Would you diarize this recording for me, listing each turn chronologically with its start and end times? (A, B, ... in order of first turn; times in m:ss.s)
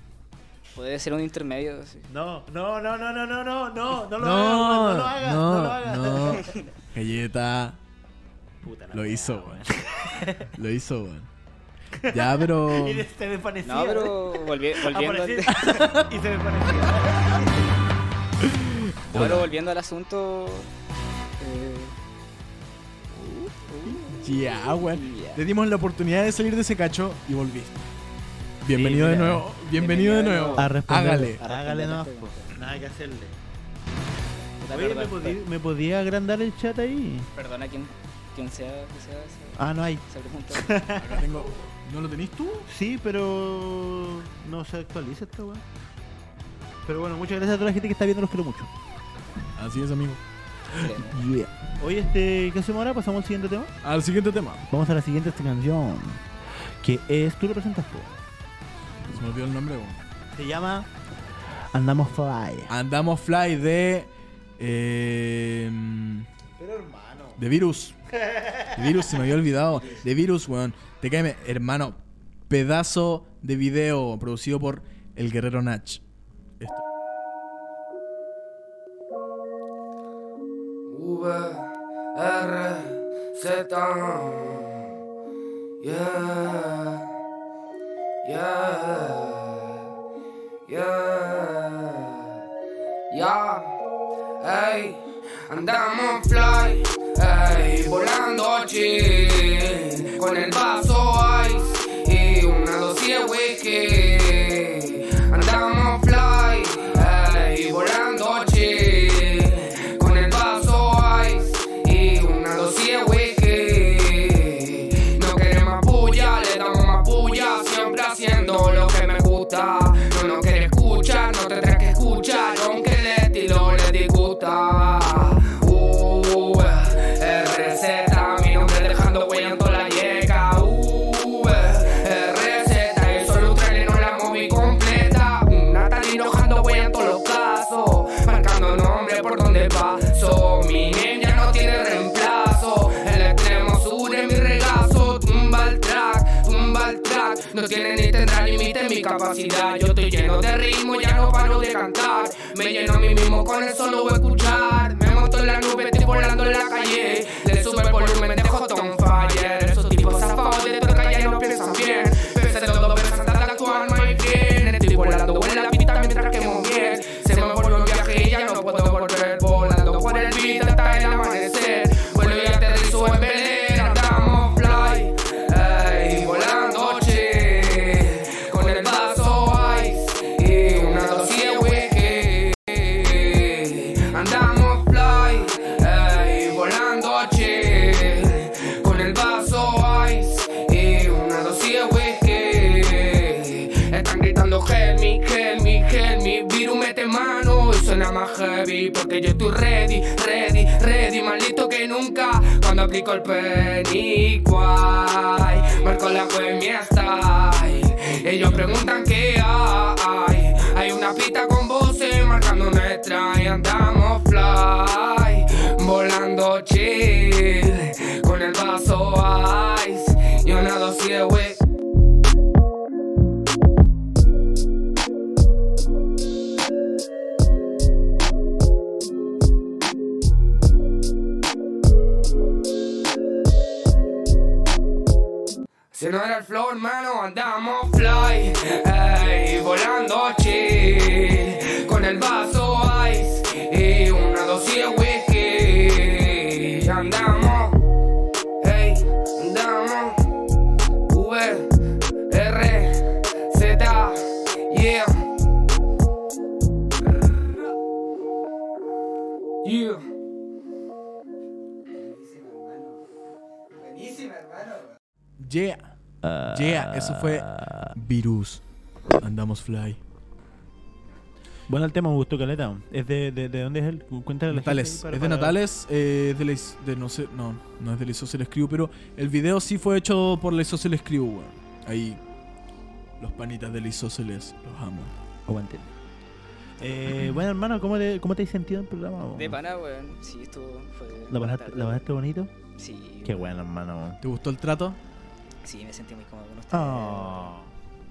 0:00.7-0:02.1 A
0:02.1-0:06.6 B
0:04.1-0:07.8 C
0:08.6-0:10.5 B
0:08.9-0:09.6 C
0:10.5-0:11.3 C
0:11.9-0:17.7 B
0:12.1-0:13.0 C
0:13.6-0:15.8 A
0:15.5-0:16.1 C
0:18.4-0:19.5 C
0:19.1-0:20.7 A
0:21.4-0:21.9 A
0:23.2-0:25.4 A
0:23.9-0:27.8 C
0:28.6-0:31.4 C
0:28.7-0:30.7 A
0:28.8-0:29.4 B
0:30.5-0:33.3 B
0:31.4-0:32.5 A
0:34.6-0:35.4 A
0:34.7-0:37.3 B
0:37.3-0:40.8 A
0:39.6-0:41.2 B
0:40.9-0:42.7 C
0:42.7-0:45.6 B
0:46.8-0:48.7 B
0:49.6-0:50.2 C
0:50.7-0:51.2 A
0:50.9-0:53.7 B
0:53.8-0:54.6 C
0:54.7-0:56.2 B
0:56.8-0:58.2 B
0:59.1-1:00.0 C
1:00.3-1:00.9 B
1:01.7-1:02.7 B
1:02.7-1:06.3 C
1:06.6-1:07.4 B
1:07.4-1:08.0 C
1:08.1-1:09.2 B
1:08.7-1:16.0 C
1:20.8-1:24.9 D
1:25.8-1:27.1 D
1:28.2-1:29.9 D
1:30.6-1:32.4 D
1:33.1-1:33.8 D
1:34.4-3:41.6 D
3:55.9-4:07.8 D
4:08.6-4:10.2 D
4:11.1-4:11.7 D
4:12.3-4:15.3 D
4:17.2-4:17.4 D
4:19.6-4:20.1 D
4:22.2-4:22.8 A
4:23.9-4:24.8 A
4:25.4-4:25.9 C
4:26.2-4:27.9 B
4:26.5-4:28.6 C
4:29.2-4:30.0 C
4:31.7-4:35.6 B
4:34.5-4:42.2 C
4:43.2-4:45.1 C
4:45.4-4:45.9 B
4:46.8-4:49.6 B
4:49.3-4:52.0 A
4:51.3-4:52.5 B
4:52.8-4:53.5 A
4:53.2-4:54.2 B
4:54.2-4:55.0 C
4:55.6-4:57.5 A
4:56.7-4:57.7 B